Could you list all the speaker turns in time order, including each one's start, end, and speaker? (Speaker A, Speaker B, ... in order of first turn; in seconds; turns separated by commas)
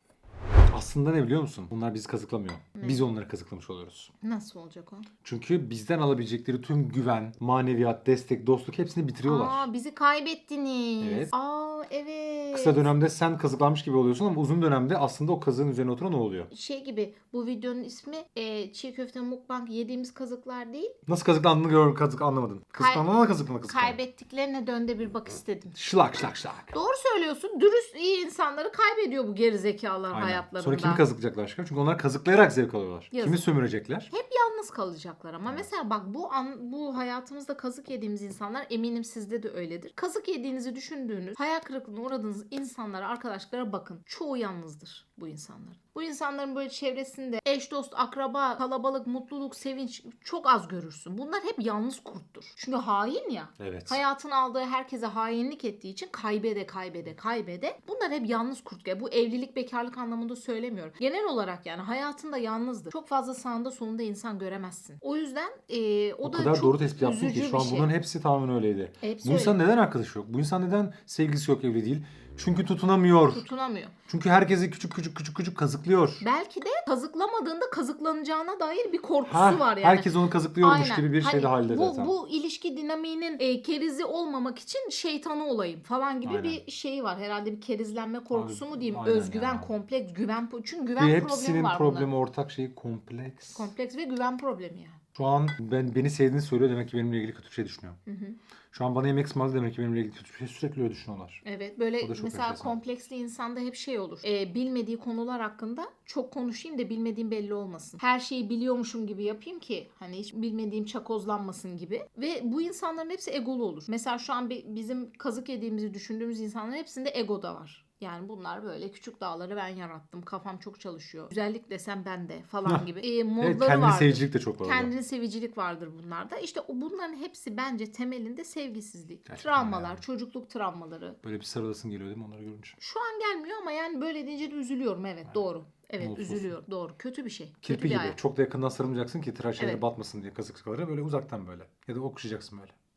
Speaker A: 0.7-4.1, Speaker B: 2.8-3.0, Speaker B: 4.2-5.1, Speaker A: 5.2-9.7, Speaker B: 9.2-12.9, Speaker A: 11.0-11.3, Speaker A: 12.5-16.5, Speaker B: 16.5-20.9, Speaker A: 21.1-24.0, Speaker B: 22.8-23.1, Speaker B: 23.6-25.7, Speaker A: 25.7-26.7, Speaker B: 26.7-31.0, Speaker A: 30.1-34.1, Speaker B: 33.1-33.5, Speaker B: 34.1-67.9, Speaker A: 53.6-54.0, Speaker A: 66.2-73.5, Speaker B: 69.0-69.6, Speaker B: 73.3-73.9, Speaker A: 74.1-76.2, Speaker B: 76.2-92.1, Speaker A: 79.3-82.1, Speaker A: 86.2-86.6, Speaker A: 88.3-89.7, Speaker A: 91.0-93.7, Speaker B: 93.5-95.0, Speaker A: 95.1-98.0, Speaker B: 98.1-98.4, Speaker A: 98.7-101.4, Speaker B: 101.4-131.2, Speaker A: 102.0-102.7, Speaker A: 123.4-124.9, Speaker A: 129.3-130.0, Speaker A: 131.2-132.8, Speaker B: 132.8-138.2, Speaker A: 136.0-136.5, Speaker A: 137.6-142.7